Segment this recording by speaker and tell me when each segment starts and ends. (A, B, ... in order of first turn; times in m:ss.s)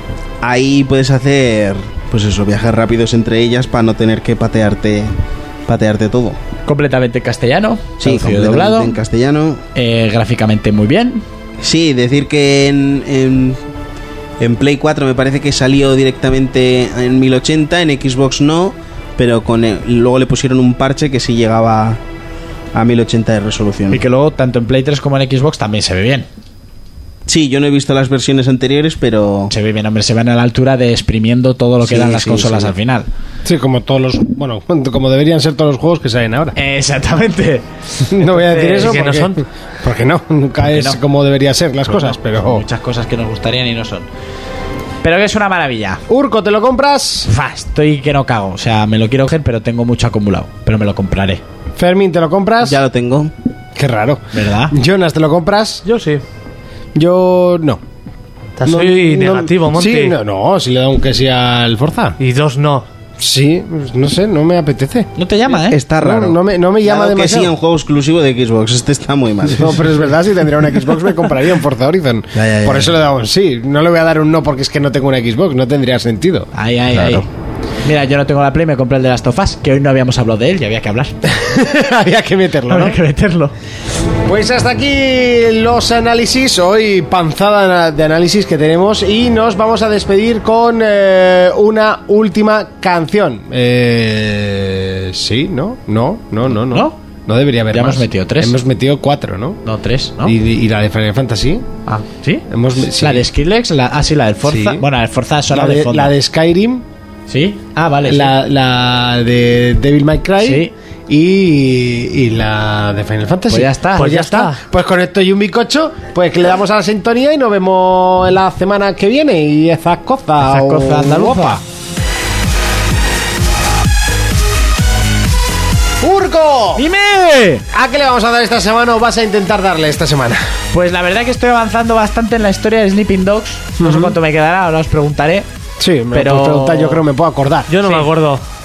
0:00.4-0:05.1 A
0:05.6-0:06.4 A
0:06.6-0:08.9 B
0:08.0-0:09.6 A
0:09.7-0:11.2 B
0:11.6-0:13.6 A
0:14.4-0:22.0 A
0:22.7-0:24.0 A
0:23.9-0:26.3 B
0:27.3-0:29.5 A
0:29.5-0:33.1 B
0:31.8-0:32.7 A
0:33.4-0:36.5 C
0:36.5-0:37.6 B
0:38.1-0:42.6 C
0:38.3-0:39.0 B
0:38.5-0:39.4 D
0:40.6-0:41.0 B
0:41.8-0:44.1 B
0:45.0-0:46.0 B
0:46.1-0:47.3 C
0:47.3-0:51.4 B
0:51.8-0:52.8 C
0:52.6-0:53.3 A
0:53.8-0:55.8 C
0:54.3-0:54.7 B
0:55.8-0:56.2 D
0:56.9-0:57.8 C
0:58.6-1:00.2 D
0:58.6-1:02.2 C
1:02.2-1:02.9 D
1:03.2-1:05.1 C
1:05.2-1:05.8 B
1:05.5-1:09.8 A
1:06.0-1:07.5 C
1:09.6-1:16.5 C
1:12.3-1:12.9 A
1:16.5-1:17.2 B
1:17.0-1:17.2 A
1:17.8-1:21.1 B
1:21.3-1:23.0 C
1:22.7-1:23.5 B
1:24.2-1:39.6 C
1:36.7-1:37.0 B
1:37.7-1:38.6 B
1:39.6-1:40.4 B
1:40.2-1:41.6 C
1:41.9-1:46.1 B
1:42.5-1:43.2 C
1:44.5-1:44.8 C
1:45.5-1:46.8 C
1:47.3-1:48.4 B
1:48.0-2:01.6 C
1:50.4-1:50.7 B
1:53.5-1:54.5 B
1:54.0-1:54.6 D
2:00.4-2:01.6 B
2:06.0-2:06.8 C
2:06.7-2:07.6 B
2:07.7-2:10.4 C
2:10.7-2:15.5 B
2:13.8-2:14.1 C
2:15.8-2:17.7 C
2:16.1-2:17.0 B
2:17.7-2:18.4 D